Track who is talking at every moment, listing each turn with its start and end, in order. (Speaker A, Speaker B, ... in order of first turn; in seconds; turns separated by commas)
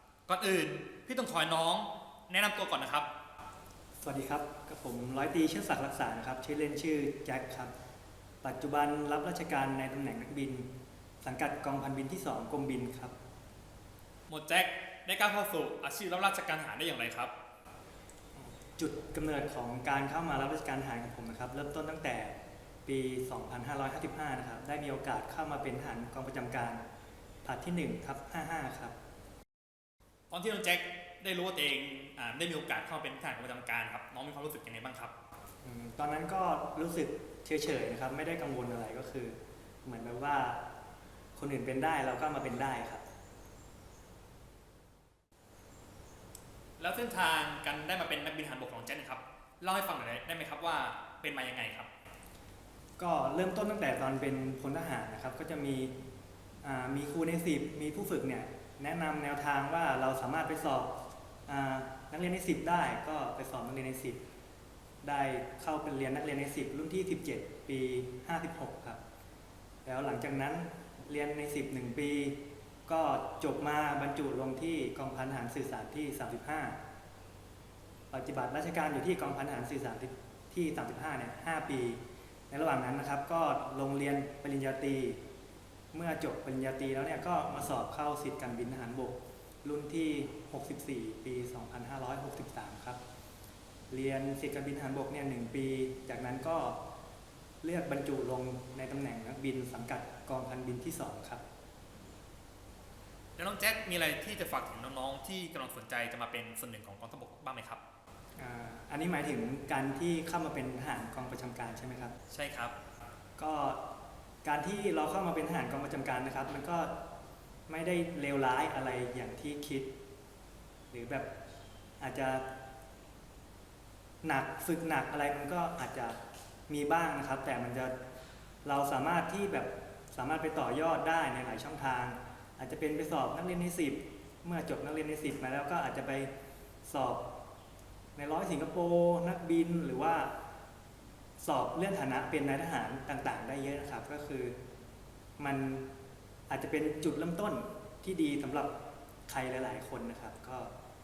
Speaker A: 0.3-3.1, Speaker B: 4.0-7.7, Speaker B: 8.4-10.7, Speaker B: 11.2-13.1, Speaker A: 14.3-17.3, Speaker B: 18.4-22.3, Speaker B: 22.9-26.8, Speaker B: 27.4-28.9, Speaker A: 30.3-35.1, Speaker B: 35.6-40.6, Speaker B: 41.4-43.0, Speaker A: 46.8-51.9, Speaker B: 53.0-55.9, Speaker B: 56.6-60.9, Speaker B: 61.5-64.2, Speaker B: 65.0-69.0, Speaker B: 69.8-76.8, Speaker B: 78.1-85.2, Speaker B: 85.9-93.0, Speaker B: 93.9-96.8, Speaker B: 97.6-101.4, Speaker A: 103.4-107.8, Speaker B: 108.4-112.1, Speaker A: 112.3-112.7, Speaker B: 113.4-113.8, Speaker B: 114.4-116.9, Speaker B: 117.7-119.9, Speaker B: 120.9-121.3, Speaker B: 122.0-122.4, Speaker B: 124.2-127.9, Speaker B: 128.6-136.3, Speaker B: 136.8-137.2, Speaker B: 138.2-140.3, Speaker B: 141.4-144.5, Speaker B: 145.4-145.9, Speaker B: 146.5-148.7, Speaker B: 149.3-150.7